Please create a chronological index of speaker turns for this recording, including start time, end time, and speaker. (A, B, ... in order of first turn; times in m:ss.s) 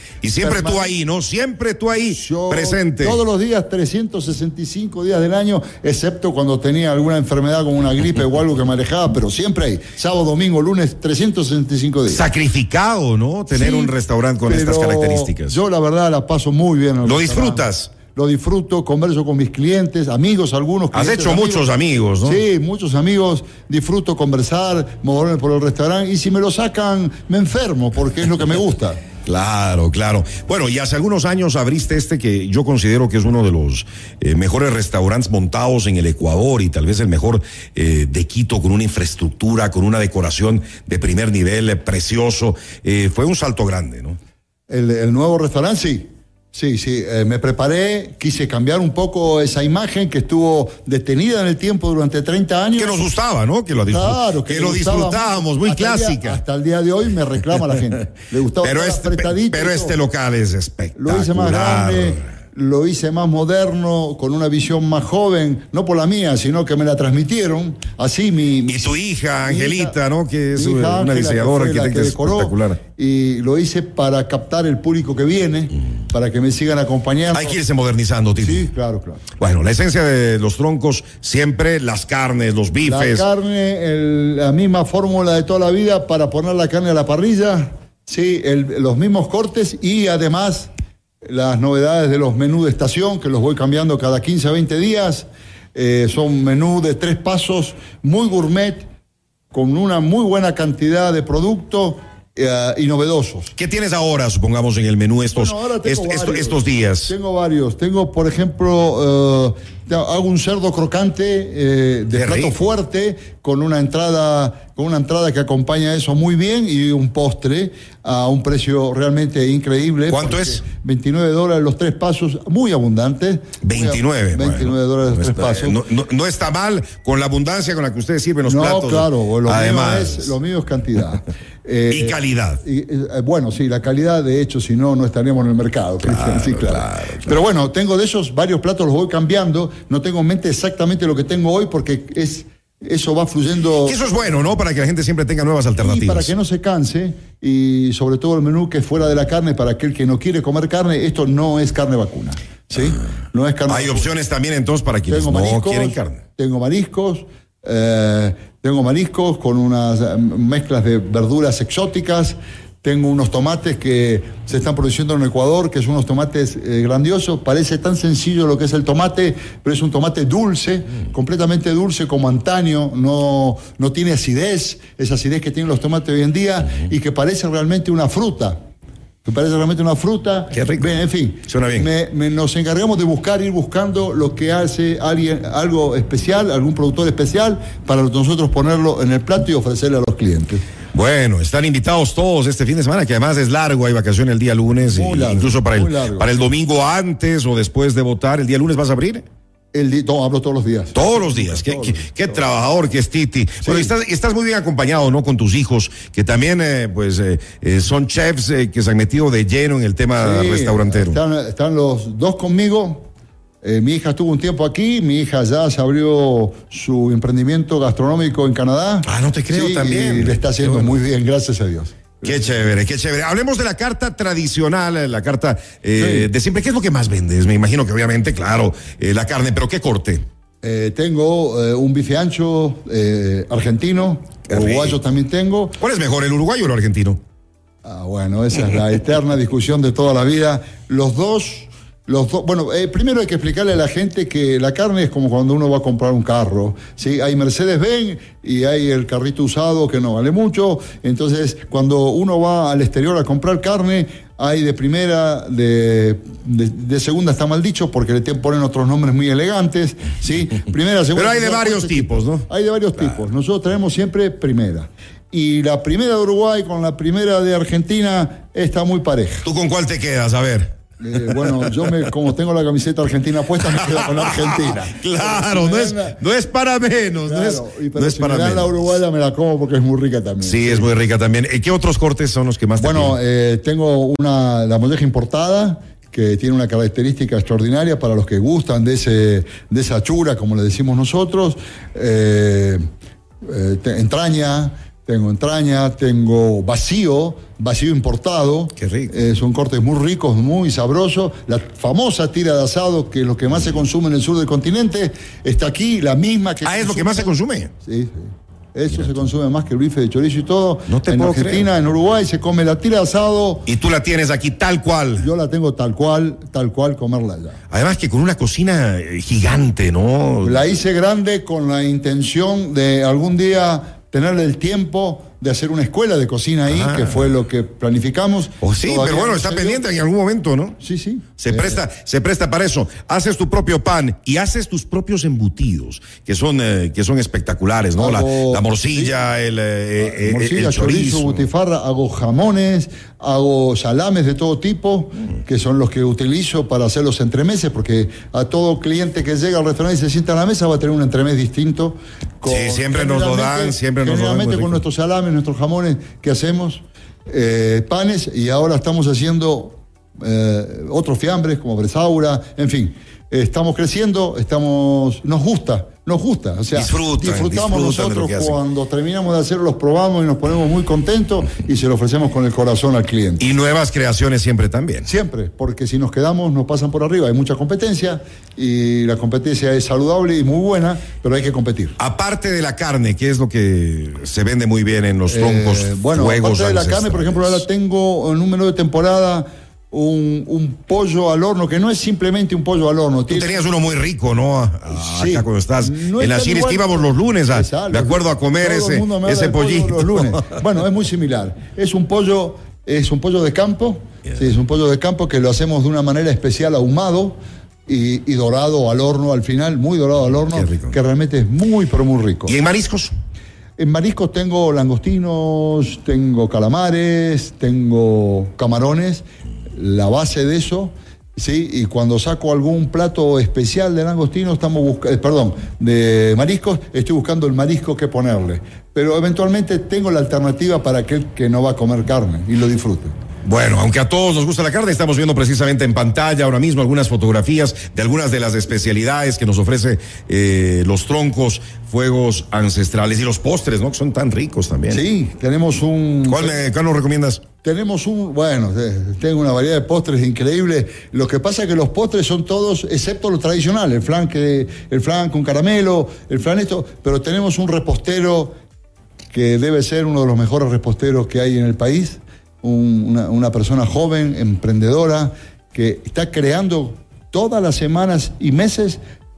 0:00.2-0:03.2 A
0:00.4-0:01.0 B
0:02.1-0:12.2 B
0:12.1-0:15.6 A
0:13.5-0:13.9 B
0:14.5-0:21.7 B
0:17.0-0:17.9 A
0:20.9-0:22.4 A
0:22.2-0:29.0 B
0:29.3-0:44.2 A
0:44.7-0:53.0 B
0:52.8-0:56.4 A
0:53.9-1:00.0 B
0:58.6-1:02.3 A
1:01.0-1:08.9 B
1:08.7-1:12.8 A
1:09.4-1:10.0 B
1:10.5-1:17.6 B
1:17.3-1:18.7 A
1:18.4-1:19.2 B
1:19.4-1:23.3 A
1:22.8-1:30.7 B
1:31.2-1:38.9 B
1:39.5-1:43.5 B
1:43.6-1:47.1 A
1:45.3-2:05.8 B
1:52.2-1:52.5 A
2:00.1-2:00.6 A
2:03.6-2:10.4 A
2:08.4-2:24.4 B
2:11.9-2:12.6 A
2:16.0-2:17.3 A
2:23.8-2:26.3 A
2:25.8-2:34.1 B
2:33.7-2:36.2 A
2:35.1-2:58.6 B
2:59.2-3:10.6 B
3:00.5-3:01.9 A
3:10.9-3:19.2 A
3:14.8-3:16.3 B
3:19.7-3:22.2 B
3:20.9-3:31.2 A
3:23.6-3:23.9 B
3:30.2-3:33.1 B
3:33.6-3:42.6 B
3:39.0-3:41.0 A
3:42.2-3:50.2 A
3:46.0-3:46.3 B
3:50.6-3:55.8 B
3:54.5-3:55.0 A
3:55.8-3:57.2 A
3:57.8-4:29.5 B
4:21.2-4:22.5 A
4:29.4-4:30.7 A
4:31.0-4:36.2 B
4:33.6-4:39.0 A
4:37.2-4:40.9 B
4:40.4-4:43.2 A
4:42.8-4:52.8 B
4:53.4-5:13.7 B
4:58.8-4:59.1 A
5:06.6-5:07.7 A
5:10.9-5:11.7 A
5:13.7-5:15.3 A
5:15.2-5:17.6 B
5:17.7-5:20.6 A
5:20.4-5:29.8 B
5:26.7-5:27.3 A
5:28.6-5:30.8 A
5:30.8-5:31.8 B
5:31.4-5:41.5 A
5:38.0-5:39.2 B
5:40.0-6:13.4 B
5:52.4-5:54.8 A
6:06.7-6:08.6 A
6:13.4-6:15.1 A
6:15.0-6:22.0 B
6:22.0-6:27.7 A
6:25.3-6:33.6 B
6:33.3-6:40.5 A
6:34.9-6:52.6 B
6:50.5-6:51.0 A
6:52.5-6:53.1 A
6:53.8-6:59.2 B
6:59.8-7:13.1 B
7:13.4-7:25.0 A
7:24.9-7:26.6 B
7:26.2-7:27.4 A
7:27.6-7:38.5 B
7:39.3-7:49.0 B